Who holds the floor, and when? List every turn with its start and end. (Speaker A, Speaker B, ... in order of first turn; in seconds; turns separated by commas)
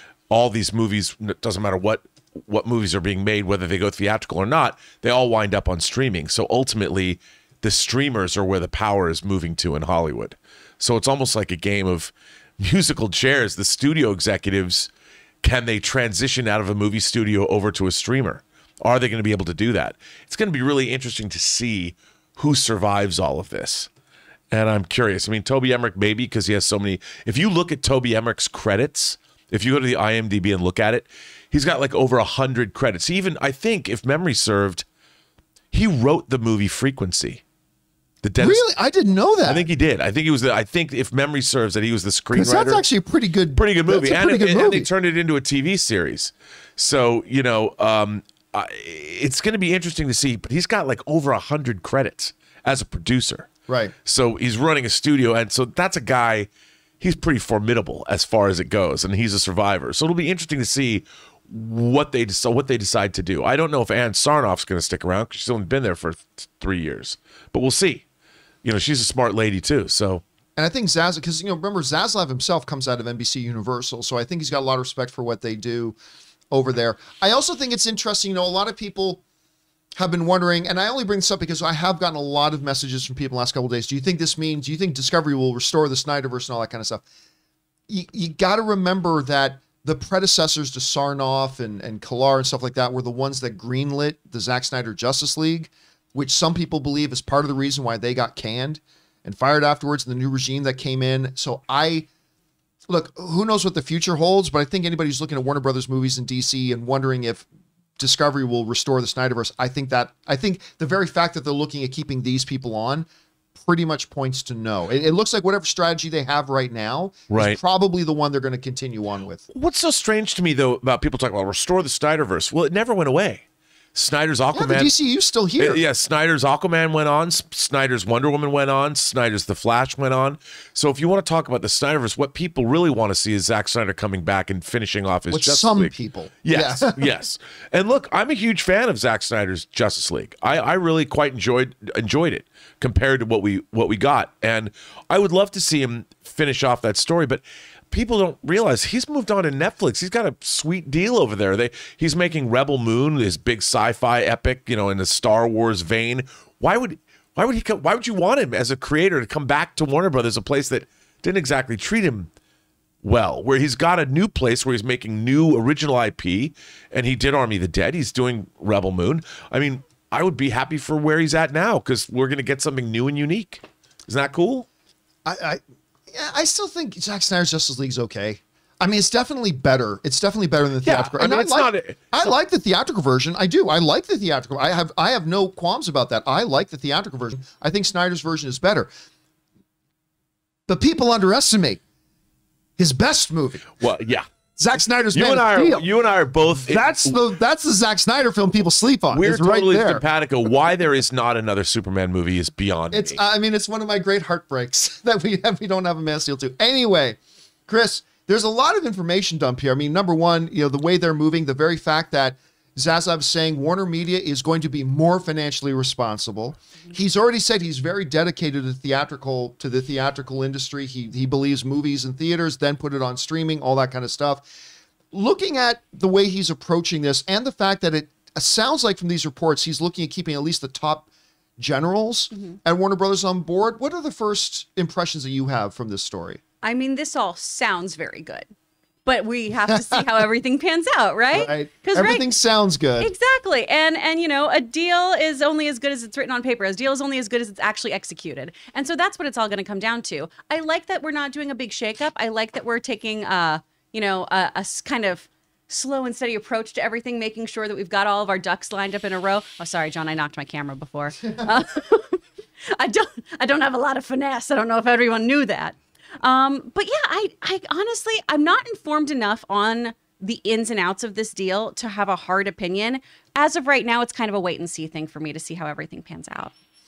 Speaker A: 0.3-14.9, Speaker A: 15.4-23.9, Speaker A: 24.5-34.9, Speaker A: 35.7-37.4, Speaker A: 38.2-38.6, Speaker B: 38.4-39.7, Speaker A: 39.5-42.8, Speaker B: 42.3-44.9, Speaker A: 43.5-53.5, Speaker B: 53.7-53.9, Speaker A: 54.1-56.5, Speaker A: 57.0-68.0, Speaker A: 68.6-70.2, Speaker B: 70.6-76.0, Speaker B: 76.5-79.2, Speaker B: 80.0-87.0, Speaker B: 87.9-102.1, Speaker B: 102.9-107.5, Speaker B: 108.0-119.5, Speaker A: 117.3-117.6, Speaker A: 119.5-123.4, Speaker A: 124.0-124.9, Speaker B: 124.5-125.8, Speaker A: 125.6-135.9, Speaker B: 135.3-137.0, Speaker A: 136.4-162.3, Speaker A: 163.0-174.7, Speaker B: 175.2-175.6, Speaker B: 176.1-188.9, Speaker A: 180.8-182.0, Speaker B: 190.7-191.8, Speaker B: 192.8-193.8, Speaker A: 193.8-194.3, Speaker B: 194.6-195.9, Speaker A: 195.1-197.2, Speaker B: 196.4-200.0, Speaker A: 199.1-203.2, Speaker B: 202.9-224.5, Speaker B: 225.1-236.4, Speaker C: 236.6-238.5, Speaker C: 239.1-242.3, Speaker B: 241.3-243.1, Speaker C: 243.0-262.2, Speaker C: 262.8-276.5